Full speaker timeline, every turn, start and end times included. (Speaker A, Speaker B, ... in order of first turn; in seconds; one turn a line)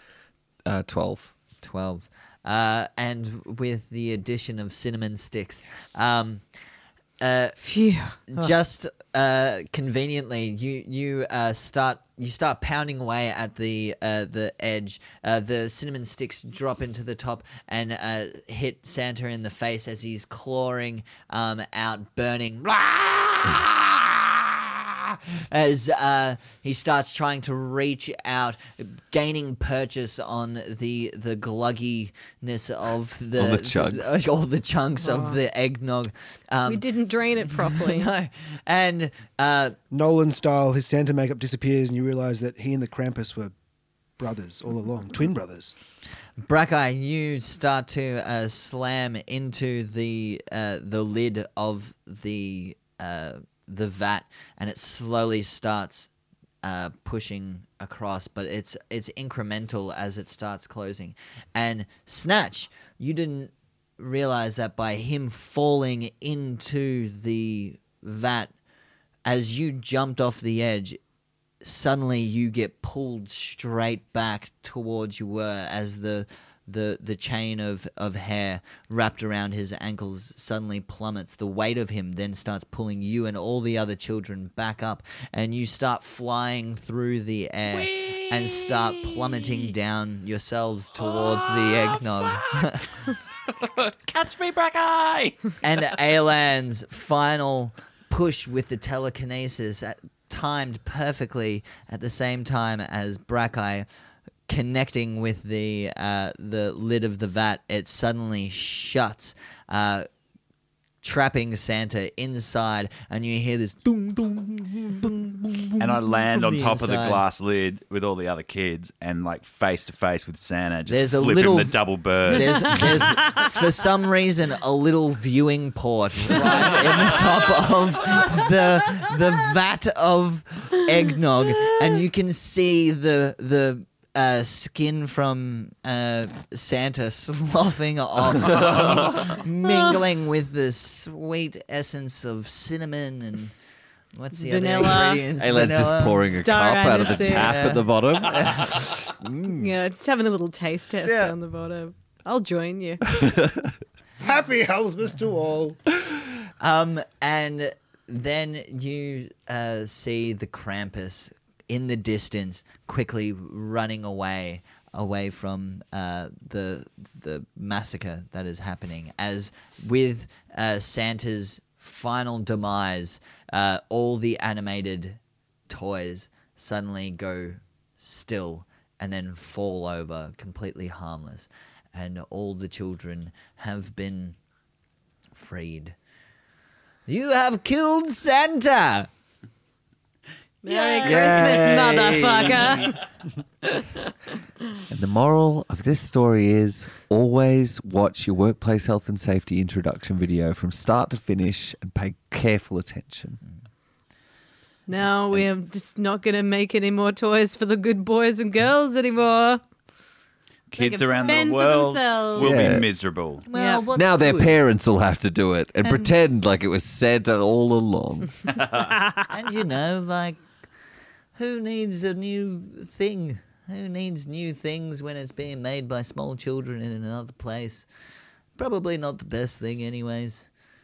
Speaker A: 0.6-1.3
Speaker B: 1.6-6.4
Speaker B: 7.2-7.6
Speaker C: 7.6-8.5
Speaker B: 8.3-36.8
Speaker A: 33.4-34.2
Speaker C: 35.0-35.4
Speaker C: 36.6-38.1
Speaker B: 37.4-39.8
Speaker D: 39.9-43.5
Speaker D: 44.2-45.7
Speaker B: 46.4-56.1
Speaker B: 56.6-68.5
Speaker B: 69.2-71.0
Speaker B: 71.6-93.0
Speaker E: 87.7-89.7
Speaker E: 91.0-92.7
Speaker E: 93.5-95.6
Speaker B: 95.6-103.9
Speaker B: 104.5-110.1
Speaker B: 111.0-117.2
Speaker E: 115.8-123.1
Speaker B: 120.8-143.5
Speaker B: 144.1-146.3
Speaker C: 144.3-145.2
Speaker A: 145.4-149.7
Speaker C: 146.3-147.5
Speaker B: 147.2-148.8
Speaker C: 149.5-153.0
Speaker A: 151.0-151.3
Speaker A: 153.1-153.7
Speaker D: 154.2-155.8
Speaker B: 156.6-184.4
Speaker B: 185.3-185.9
Speaker B: 187.1-189.1
Speaker C: 190.6-193.0
Speaker E: 190.7-191.3
Speaker A: 191.0-193.0
Speaker C: 193.6-194.0
Speaker A: 194.9-203.4
Speaker C: 204.9-209.6
Speaker E: 210.7-213.4
Speaker C: 210.7-212.7
Speaker A: 212.4-212.9
Speaker B: 213.5-214.5
Speaker C: 213.5-213.8
Speaker A: 213.9-218.4
Speaker B: 215.8-216.1
Speaker E: 218.5-218.8
Speaker B: 219.3-220.4
Speaker B: 221.3-227.9
Speaker B: 228.6-230.5